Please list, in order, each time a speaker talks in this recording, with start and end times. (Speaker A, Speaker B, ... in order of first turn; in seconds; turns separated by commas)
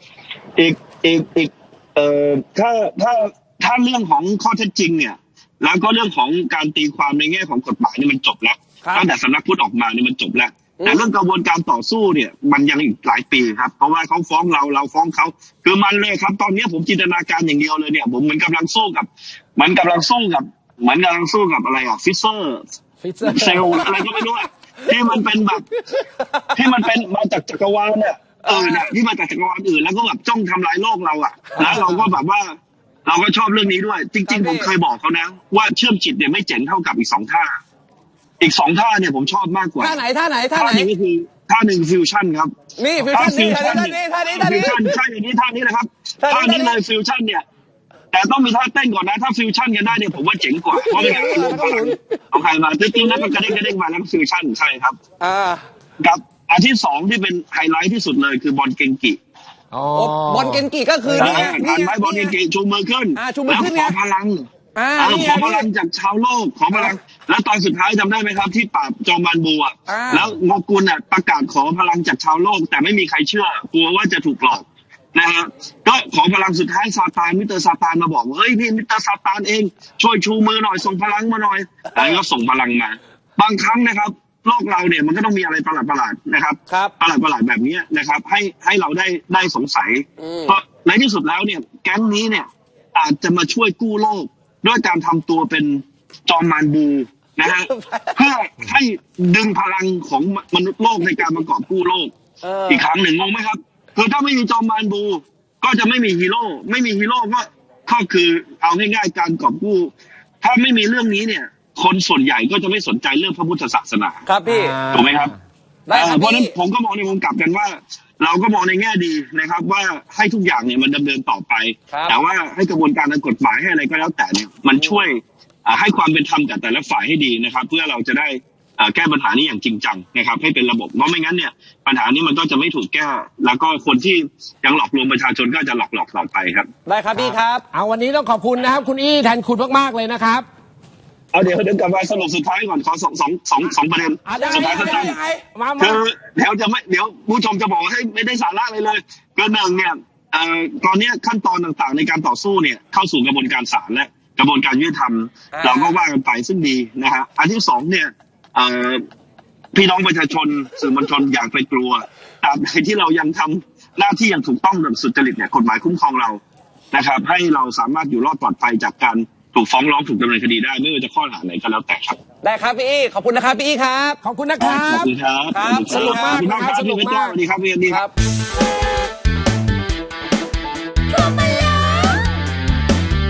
Speaker A: 0.6-22.6, Speaker B: 8.8-9.1, Speaker B: 10.8-11.1, Speaker C: 23.0-24.0, Speaker A: 23.2-25.7, Speaker A: 26.5-37.6, Speaker B: 28.4-28.9, Speaker B: 31.6-31.9, Speaker B: 34.3-34.7, Speaker A: 38.4-40.0, Speaker B: 39.8-40.9, Speaker A: 40.5-47.4, Speaker B: 42.8-45.0, Speaker B: 46.2-46.8, Speaker A: 48.1-55.0, Speaker B: 50.7-52.0, Speaker B: 53.0-53.6, Speaker B: 55.2-55.6, Speaker A: 56.0-59.2, Speaker C: 59.7-61.5, Speaker B: 59.9-62.3, Speaker A: 61.1-102.1, Speaker B: 63.1-64.0, Speaker B: 64.7-65.7, Speaker B: 69.9-70.3, Speaker B: 90.2-90.6, Speaker B: 97.5-98.2, Speaker B: 102.4-102.9, Speaker A: 102.7-109.9, Speaker A: 110.4-114.2, Speaker B: 114.2-114.8, Speaker C: 114.4-115.4, Speaker A: 114.9-115.3, Speaker B: 115.9-116.5, Speaker A: 115.9-136.7, Speaker B: 136.9-137.7, Speaker C: 137.1-140.4, Speaker A: 141.3-145.2, Speaker C: 144.2-146.0, Speaker B: 144.3-145.3, Speaker A: 145.8-159.0, Speaker B: 155.5-155.9, Speaker A: 159.7-172.2, Speaker B: 172.4-174.2, Speaker C: 174.2-175.1, Speaker A: 174.6-178.0, Speaker B: 175.5-176.4, Speaker C: 175.8-177.3, Speaker B: 177.9-178.1, Speaker B: 181.1-182.3